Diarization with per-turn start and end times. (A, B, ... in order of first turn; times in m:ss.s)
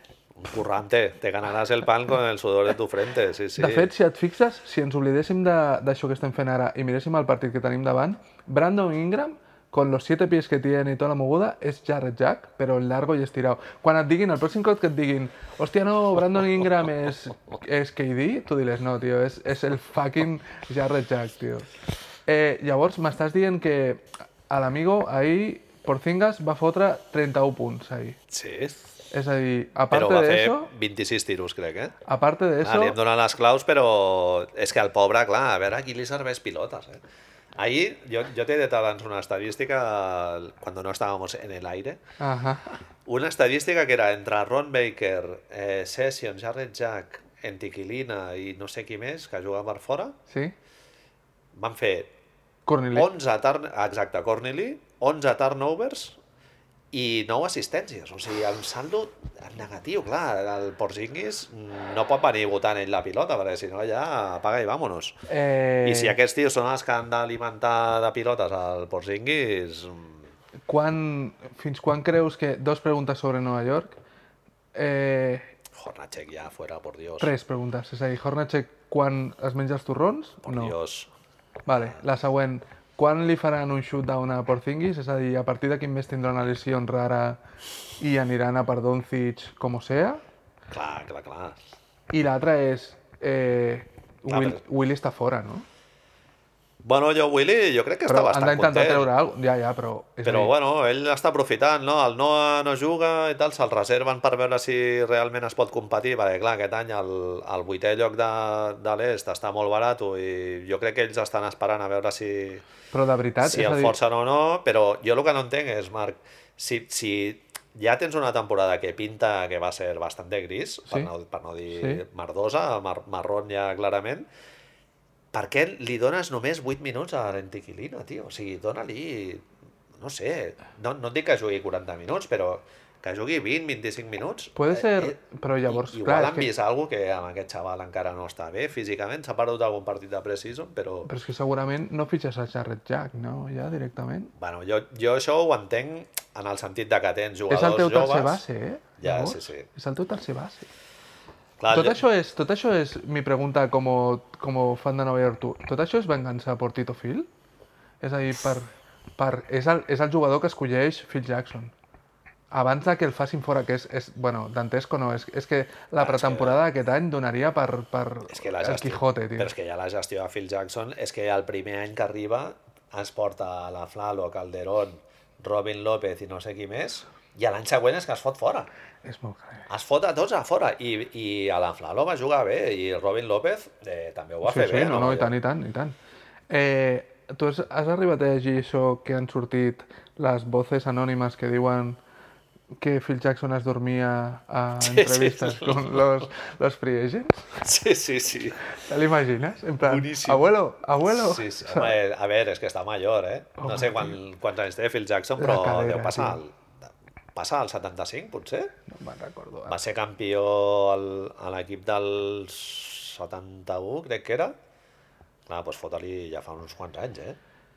0:00.4-0:03.9 A
0:03.6-0:21.7 B
0:22.3-0:28.2 B
0:28.3-0:28.8 A
0:29.1-0:30.7 B
0:29.9-0:32.0 A
0:32.1-0:33.0 B
0:32.6-0:37.0 A
0:37.6-0:42.0 A
0:42.2-0:42.8 B
0:43.1-0:50.2 A
0:50.3-0:50.5 B
0:51.5-0:52.1 A
0:52.7-0:53.1 B
0:52.9-0:56.2 A
0:56.9-1:05.2 A
1:05.3-1:06.2 B
1:05.8-1:10.3 A
1:10.7-1:14.0 B
1:14.8-1:15.5 B
1:15.7-1:17.3 A
1:17.2-1:20.8 B
1:20.4-1:21.1 A
1:21.7-1:27.4 B
1:28.0-1:30.2 B
1:30.7-1:31.6 A
1:32.1-1:35.7 B
1:34.3-1:34.6 A
1:36.8-1:39.1 A
1:38.1-1:40.5 B
1:40.2-1:52.6 A
1:52.9-1:54.0 B
1:53.4-2:04.3 A
2:01.7-2:02.0 B
2:05.3-2:15.2 A
2:14.6-2:16.5 B
2:15.7-2:21.1 A
2:21.0-2:24.3 B
2:24.4-2:28.4 A
2:27.5-2:30.7 B
2:29.0-2:29.7 A
2:31.6-2:32.0 A
2:31.7-2:37.3 B
2:38.0-2:41.7 B
2:42.5-2:49.5 B
2:46.0-2:46.6 A
2:48.3-2:58.7 A
2:59.0-2:59.7 B
2:59.7-3:05.3 A
3:04.4-3:06.0 B
3:06.5-3:12.0 B
3:12.8-3:17.6 B
3:14.8-3:16.1 A
3:17.6-3:18.6 A
3:18.7-3:22.0 B
3:19.8-3:20.5 A
3:21.1-3:28.7 A
3:23.6-3:24.2 B
3:25.4-3:26.4 B
3:28.9-3:29.8 B
3:29.7-3:34.6 A
3:35.5-3:37.4 A